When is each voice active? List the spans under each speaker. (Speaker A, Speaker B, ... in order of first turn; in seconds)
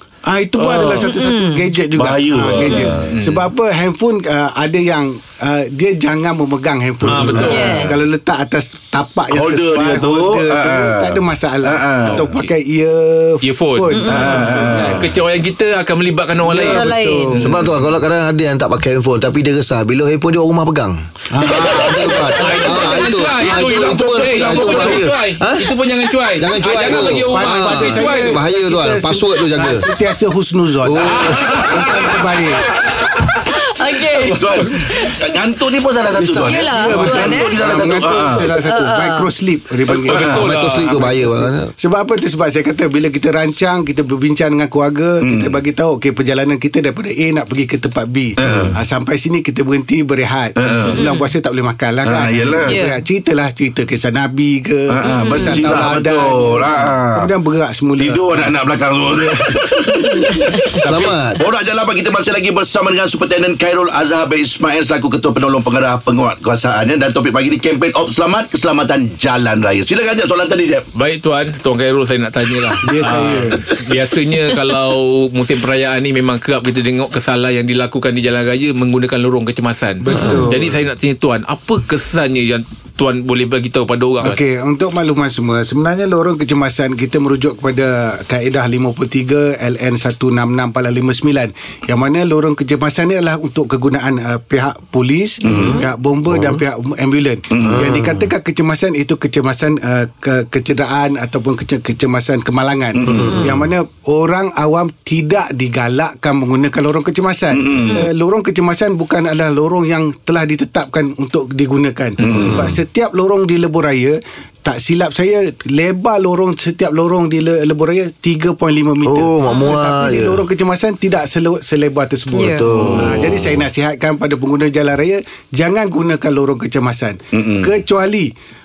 Speaker A: 0.2-15.1, 16.4-17.7, 21.3-23.1, 26.8-32.6, 36.1-40.4, 40.9-58.5, 72.8-73.7, 80.0-80.8, 84.2-128.3
Speaker B: 0.6-1.7, 2.5-2.9, 7.4-7.9, 13.9-14.5, 16.6-17.5, 33.4-35.1, 36.4-37.5, 38.6-39.3, 50.9-51.3, 52.7-53.0, 55.0-55.7, 60.2-60.7, 122.3-122.6
Speaker C: 0.6-1.1, 3.1-3.5, 7.0-7.9, 12.1-12.5, 13.4-17.5, 21.5-28.4, 31.2-32.1, 36.9-37.3, 40.0-41.1, 70.9-84.4
Speaker D: 1.9-3.1, 7.1-7.6, 9.3-12.4, 14.1-15.1, 23.6-24.8, 32.9-33.3, 34.3-38.5, 39.9-40.3, 45.2-45.6, 48.4-48.7, 50.6-51.0, 52.0-52.8, 54.9-57.3, 58.0-60.2, 60.8-70.8, 95.4-95.8, 97.5-98.1, 102.9-103.3, 107.5-108.1, 112.2-112.7, 123.0-123.3, 127.3-127.7
Speaker E: 17.4-25.7, 26.3-29.9, 30.8-31.9, 40.3-41.7, 60.8-61.4, 95.5-96.6, 97.7-98.2, 103.0-103.6, 119.0-120.4, 122.4-123.6